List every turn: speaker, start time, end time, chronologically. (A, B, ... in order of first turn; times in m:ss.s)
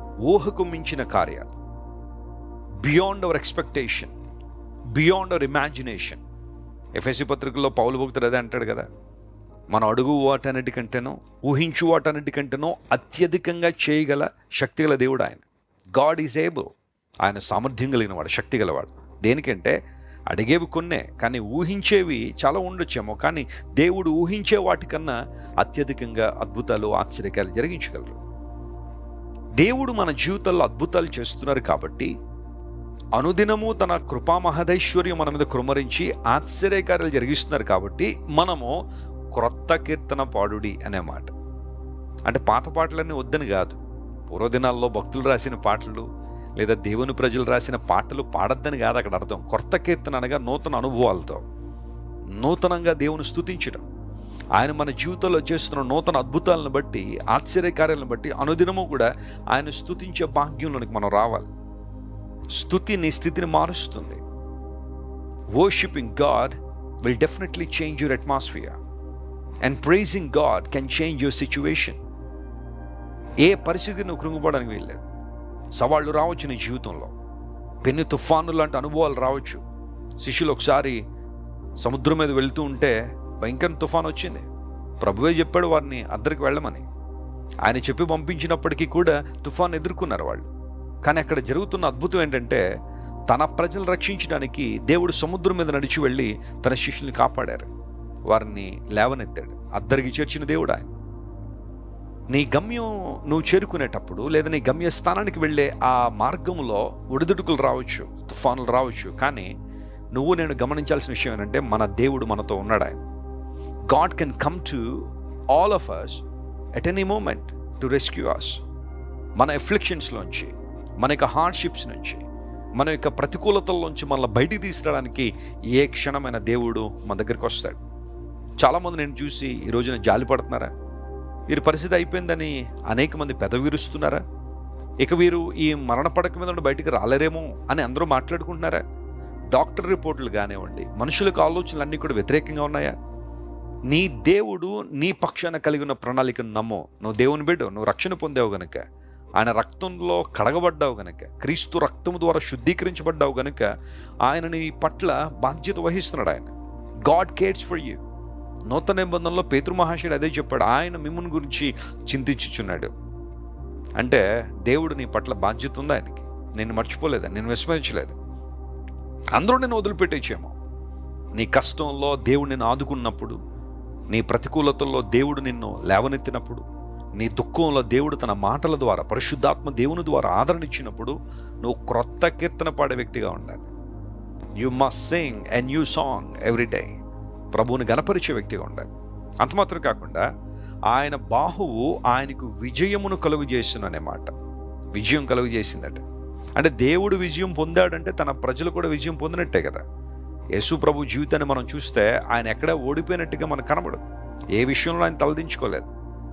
0:00.3-0:01.5 A
0:02.8-0:04.1 A
0:05.0-0:06.2 A
0:07.0-0:08.9 A
0:09.7-0:15.4 A
0:16.0-0:16.7 A
0:17.2-0:19.8 A
0:20.3-0:28.2 A
0:29.6-0:32.1 A
0:33.2-0:38.7 A
0:39.3-0:41.3 A
0:42.3-0:43.8 A
0:44.3-0:46.1 A
0:46.6-0:51.4 A
0:52.4-0:53.9 A
0:54.6-1:01.5 A
1:02.6-1:04.2 A
1:05.6-1:08.8 A
1:09.6-1:12.0 A
1:13.4-1:15.0 A
1:15.8-1:17.1 A
1:17.8-1:19.6 A
1:20.2-1:21.0 A
1:21.8-1:24.5 A
1:25.0-1:26.9 A
1:27.7-1:30.5 A
1:31.0-1:32.6 A
1:33.3-1:37.7 A
1:38.3-1:40.9 A
1:42.3-1:49.5 A
1:50.2-1:53.1 A
1:53.9-1:54.8 A
1:55.5-1:56.2 A
1:56.8-1:58.6 A
1:59.4-2:02.2 A
2:02.8-2:07.8 A
2:08.6-2:10.7 A
2:11.5-2:14.2 A
2:15.0-2:18.8 A
2:19.5-2:22.9 A
2:23.9-2:28.8 A
2:29.4-2:33.7 A
2:34.3-2:36.5 A
2:37.1-2:38.0 A
2:38.7-2:42.9 A
2:44.0-2:48.2 A
2:49.4-2:50.6 A
2:51.4-2:53.4 A
2:54.1-2:56.6 A
2:57.2-3:03.7 A
3:04.6-3:06.9 A
3:07.5-3:08.8 A
3:09.4-3:10.2 A
3:10.9-3:14.3 A
3:14.9-3:16.0 A
3:16.6-3:19.8 A
3:20.6-3:24.0 A
3:24.6-3:25.9 A